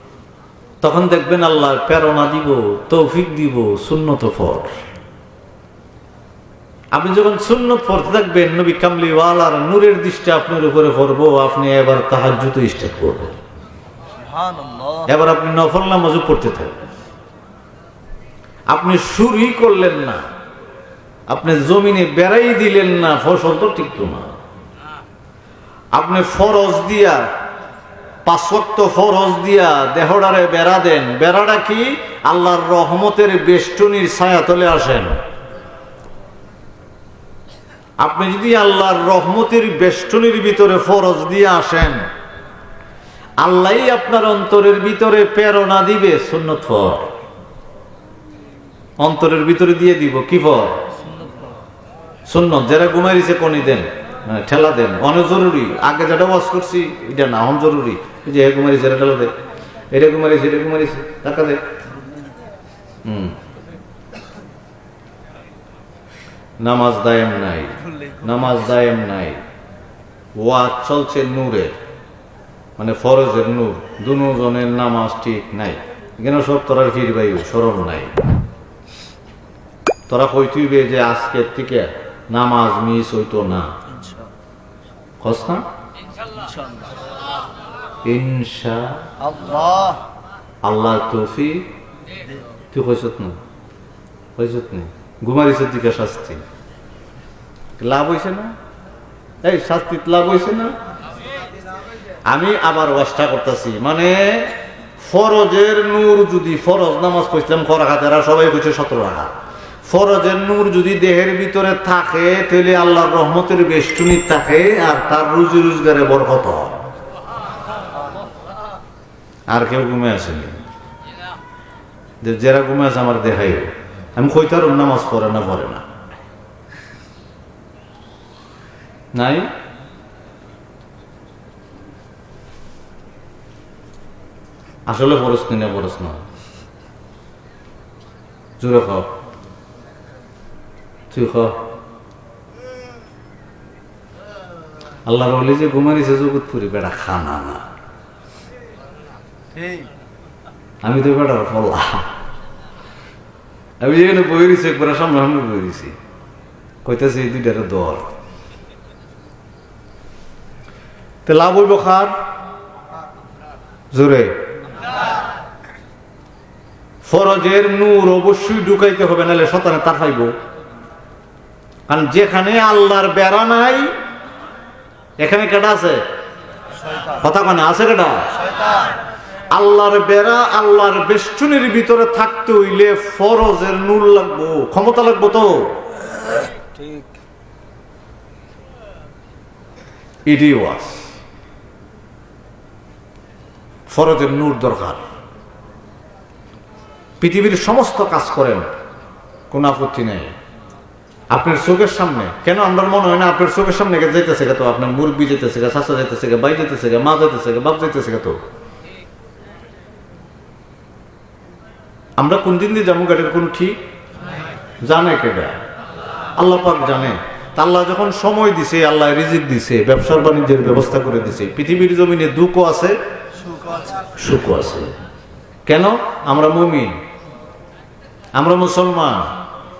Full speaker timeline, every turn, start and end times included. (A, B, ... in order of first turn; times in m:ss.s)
0:00.8-0:04.7 A
0:06.9-0:13.4 A
0:14.3-0:15.0 B
0:15.1-0:16.8 A
0:18.7-0:20.2 A
0:21.3-0:24.3 A
0:25.9-0:27.3 A
0:28.2-0:35.1 A
0:38.0-0:42.0 A
0:43.4-0:47.0 A
0:49.0-0:50.8 A
0:52.3-0:59.3 A
0:59.9-1:01.6 A
1:03.0-1:03.4 A
1:06.6-1:09.4 A
1:10.4-1:11.7 A
1:12.8-1:18.2 A
1:20.1-1:23.7 A
1:25.2-1:25.6 A
1:26.3-1:26.6 B
1:28.0-1:29.0 A
1:29.3-1:30.0 B
1:30.6-1:31.7 A
1:32.7-1:33.4 A
1:34.4-1:36.4 A
1:37.8-1:38.5 A
1:39.4-1:40.7 A
1:42.3-1:49.3 A
1:49.8-1:56.8 A
1:59.5-2:00.6 A
2:02.2-2:05.8 A
2:09.1-2:09.5 A
2:14.9-2:16.2 A
2:18.6-2:19.1 A
2:21.1-2:21.6 A
2:25.0-2:27.6 A
2:30.8-2:32.0 A
2:33.8-2:36.0 A
2:36.8-2:38.0 A
2:41.2-2:42.1 A
2:43.9-2:44.3 A
2:47.0-2:50.3 A
2:51.9-2:53.9 A
2:55.2-2:56.0 A
2:57.2-2:58.3 A
2:59.5-3:05.8 A
3:06.6-3:07.1 B
3:10.2-3:11.1 A
3:13.9-3:15.0 A
3:17.2-3:18.7 A
3:19.5-3:20.3 A
3:21.3-3:28.4 A
3:32.2-3:33.8 A
3:34.8-3:35.5 A
3:36.4-3:43.0 A
3:44.2-3:44.9 A
3:45.7-3:47.0 A
3:48.4-3:49.2 A